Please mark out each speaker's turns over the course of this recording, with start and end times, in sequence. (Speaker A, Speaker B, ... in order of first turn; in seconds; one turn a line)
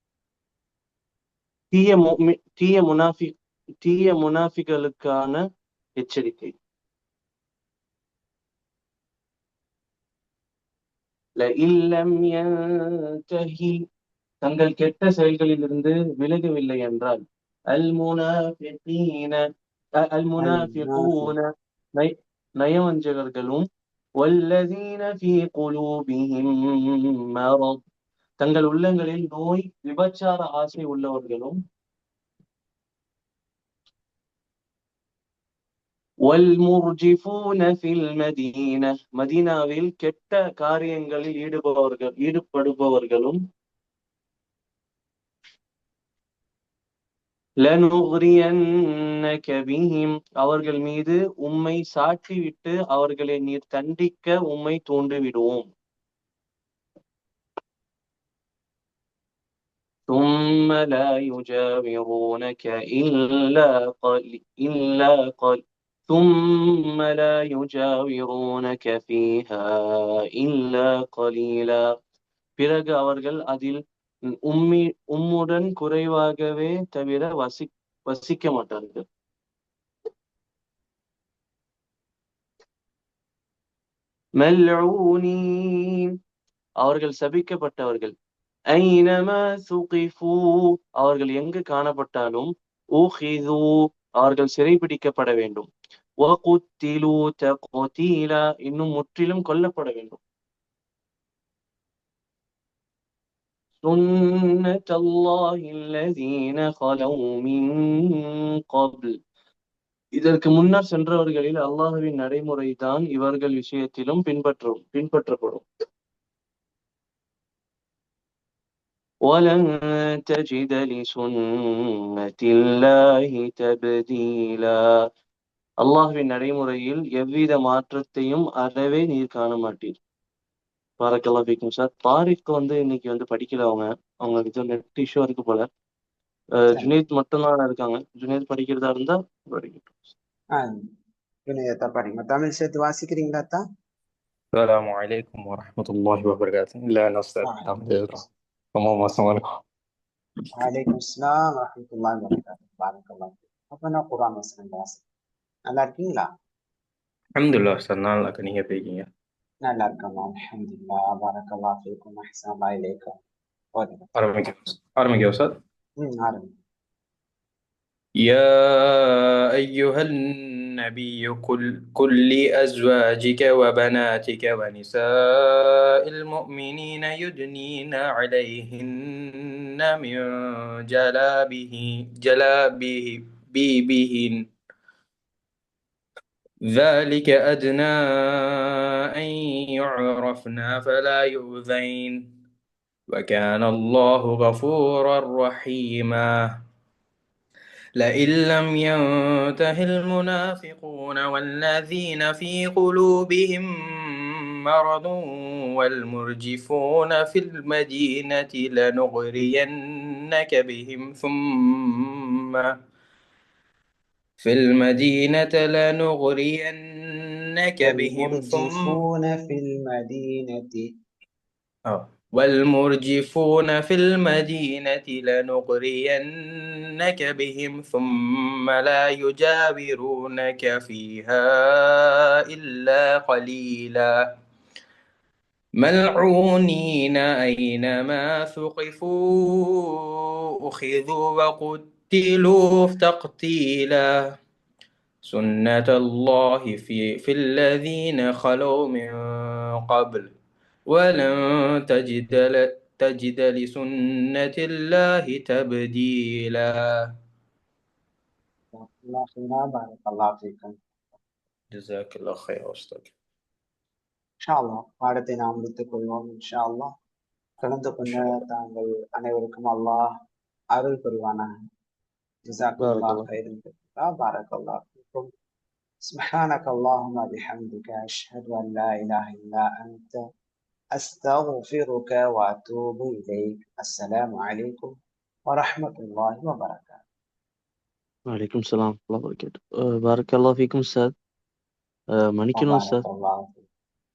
Speaker A: 1.7-5.4
Speaker A: 6.0-6.5
Speaker A: 11.4-13.7
Speaker A: 14.4-17.2
Speaker A: 17.7-19.4
Speaker A: 20.1-21.4
Speaker B: 20.4-21.3
Speaker A: 22.0-23.6
Speaker A: 24.2-27.8
Speaker A: 28.4-31.6
Speaker A: 36.3-43.4
Speaker A: 47.6-48.6
Speaker A: 49.2-55.7
Speaker A: 60.1-71.8
Speaker A: 72.6-73.8
Speaker A: 74.5-79.0
Speaker A: 84.4-86.1
Speaker A: 86.8-88.1
Speaker A: 88.8-92.5
Speaker A: 93.0-93.7
Speaker A: 94.2-95.7
Speaker A: 96.2-100.2
Speaker A: 103.8-108.2
Speaker A: 108.7-109.1
Speaker A: 110.2-115.6
Speaker A: 119.3-119.6
Speaker A: 120.2-124.7
Speaker A: 125.8-129.9
Speaker A: 131.0-135.7
Speaker A: 136.7-140.1
Speaker B: 141.5-143.6
Speaker C: 144.5-148.2
Speaker C: 148.7-149.4
Speaker B: 150.6-155.0
Speaker B: 155.7-156.3
Speaker C: 157.4-159.1
Speaker B: 159.6-163.2
Speaker B: 163.8-164.1
Speaker C: 164.2-165.5
Speaker B: 166.0-166.5
Speaker C: 168.2-170.1
Speaker C: 170.8-184.4
Speaker C: 186.7-192.2
Speaker C: 193.1-196.3
Speaker C: 198.0-212.7
Speaker C: 214.4-219.0
Speaker B: 217.8-220.9
Speaker C: 221.9-226.3
Speaker C: 227.0-234.1
Speaker C: 235.8-244.2
Speaker C: 245.2-250.3
Speaker C: 250.9-256.7
Speaker B: 258.7-260.8
Speaker C: 261.7-263.1
Speaker B: 264.4-266.9
Speaker B: 267.6-270.1
Speaker C: 268.1-268.4
Speaker B: 270.7-271.5
Speaker B: 272.4-275.3
Speaker A: 272.8-273.2
Speaker B: 276.1-280.2
Speaker B: 281.0-284.9
Speaker B: 285.5-287.0
Speaker A: 288.3-291.1
Speaker A: 292.3-293.0
Speaker B: 292.6-293.6